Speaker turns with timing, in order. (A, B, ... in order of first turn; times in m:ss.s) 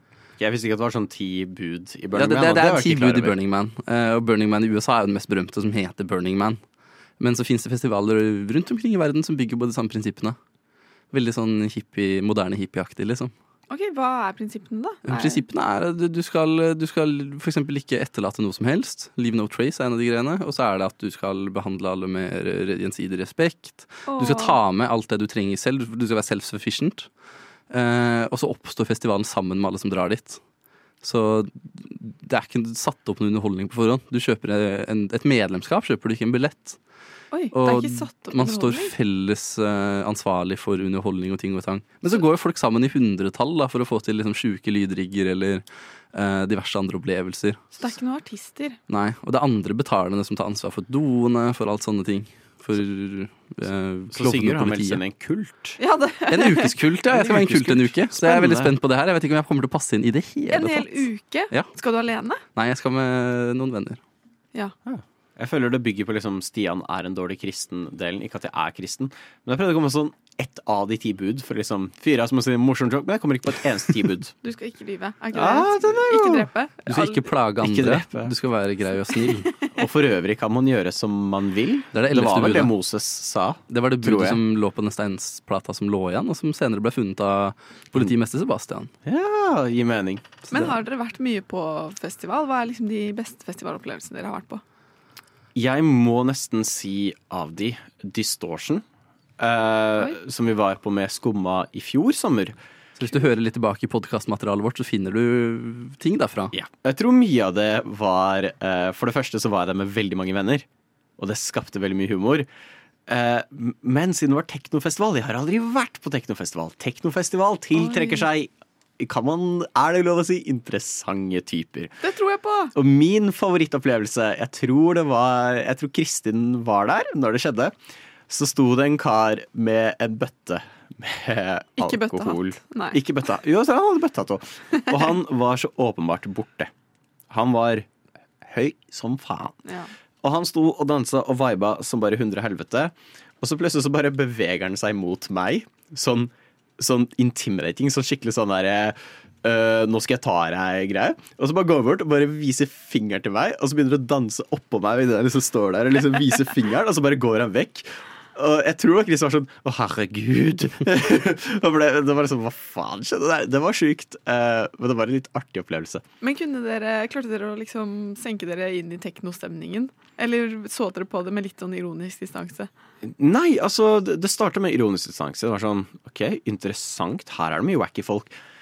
0:00.4-0:03.4 A
0:02.1-0:06.6 B
0:07.2-0:10.4 B
0:11.1-0:13.3 B
0:13.7-0:15.4 C
0:15.1-0:27.1 B
0:24.1-0:24.6 C
0:27.7-0:30.4 B
0:31.0-0:36.8 B
0:37.3-0:38.9 C
0:37.5-0:47.6 B
0:47.8-0:48.8 C
0:48.9-0:55.0 B
0:54.1-0:55.8 A
0:55.8-0:57.6 C
0:56.3-1:01.7 B
0:57.2-0:58.6 A
1:00.5-1:02.4 C
1:02.6-1:04.0 B
1:04.9-1:14.3 A
1:14.4-1:17.2 C
1:15.3-1:16.5 A
1:16.9-1:19.5 B
1:17.6-1:18.3 A
1:19.8-1:24.4 A
1:21.9-1:22.7 B
1:23.7-1:28.9 B
1:29.1-1:30.2 A
1:30.5-1:34.6 C
1:35.6-1:38.8 A
1:39.4-1:42.6 A
1:43.0-1:46.6 B
1:46.5-1:50.6 A
1:51.2-1:52.5 A
1:53.1-2:01.9 A
1:57.8-1:58.3 C
2:02.0-2:02.7 C
2:02.8-2:07.7 A
2:08.3-2:16.7 A
2:11.8-2:13.0 C
2:17.3-2:17.9 A
2:18.4-2:19.6 A
2:19.6-2:19.9 C
2:20.2-2:46.0 A
2:46.2-2:52.7 C
2:53.0-2:58.3 A